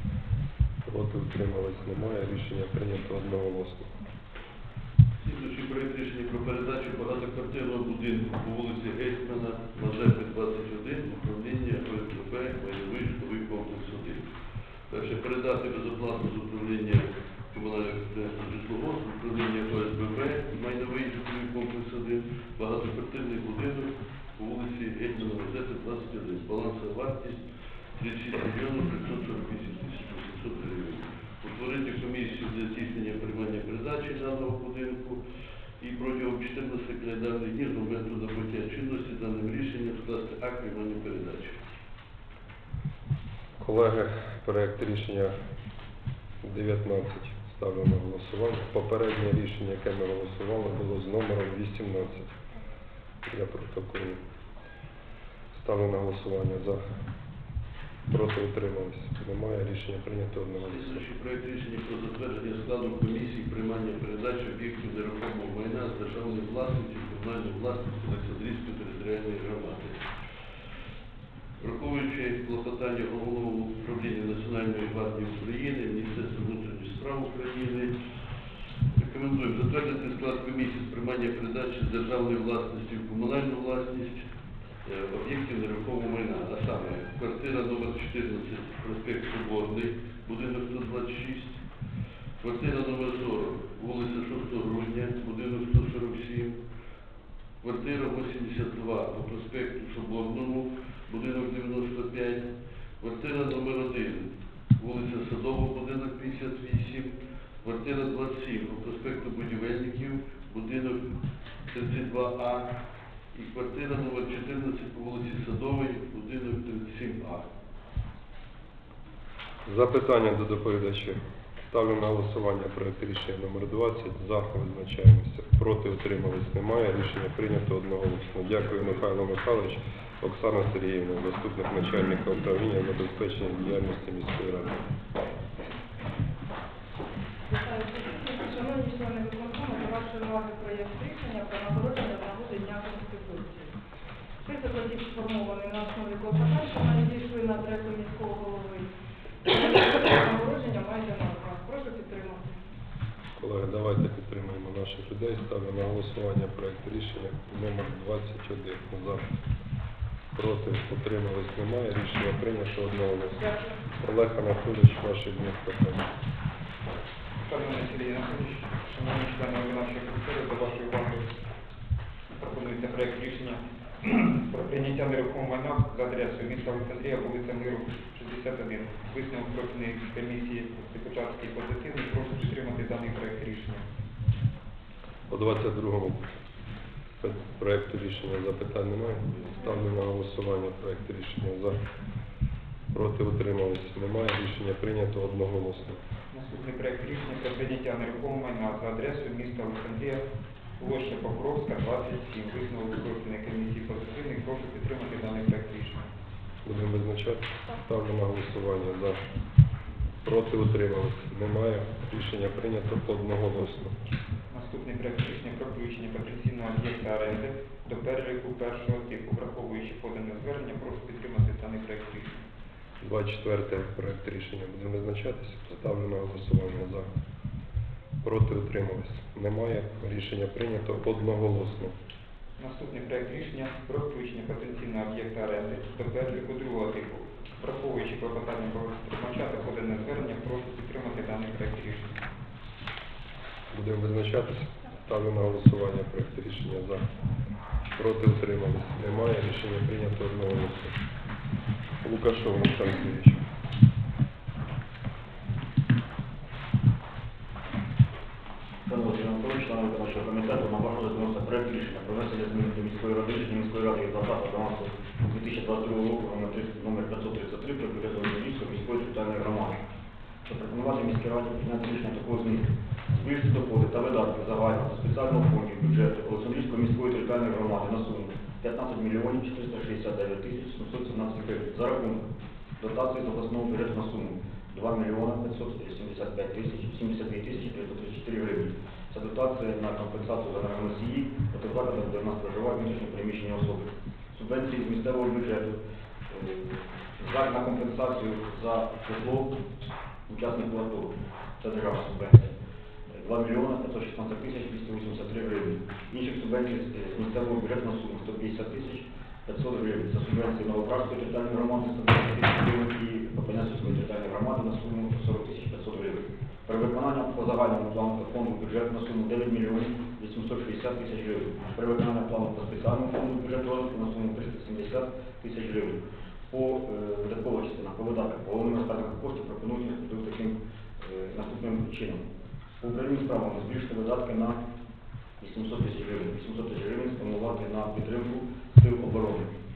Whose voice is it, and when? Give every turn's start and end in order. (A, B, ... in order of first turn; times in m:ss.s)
0:00.8-0:03.9 A
0:05.2-0:14.2 B
0:14.9-0:27.4 B
0:28.0-0:35.2 B
0:35.8-0:41.6 B
0:43.6-0:45.3 A
0:46.4-0:52.4 A
0:53.2-0:54.2 A
0:55.5-0:56.8 A
0:58.1-1:01.0 A
1:00.6-1:10.0 B
1:11.6-1:17.9 B
1:18.9-1:24.2 B
1:24.8-1:31.6 B
1:32.4-1:36.6 B
1:37.6-1:42.5 B
1:43.0-1:51.1 B
1:51.7-1:52.7 B
1:53.3-1:57.4 B
1:59.6-2:14.9 A
2:17.5-2:23.7 C
2:24.4-2:28.9 C
2:29.4-2:32.5 C
2:33.4-2:39.2 A
2:40.3-2:46.1 A
2:47.4-2:51.3 D
2:52.3-3:03.8 D
3:05.3-3:06.3 A
3:07.2-3:11.8 A
3:12.9-3:16.0 A
3:16.3-3:20.2 D
3:20.8-3:26.0 D
3:26.6-3:29.2 A
3:30.2-3:34.0 A
3:34.5-3:42.4 D
3:43.0-3:47.1 A
3:48.2-3:51.9 A
3:52.6-4:02.2 D
4:03.7-4:07.1 A
4:07.9-4:11.0 A
4:12.0-4:13.4 A
4:18.8-4:29.8 E
4:30.5-4:42.2 E
4:42.8-4:59.6 E
5:00.3-5:02.6 E
5:03.1-5:32.2 E
5:32.8-5:34.6 E
5:35.4-5:39.5 E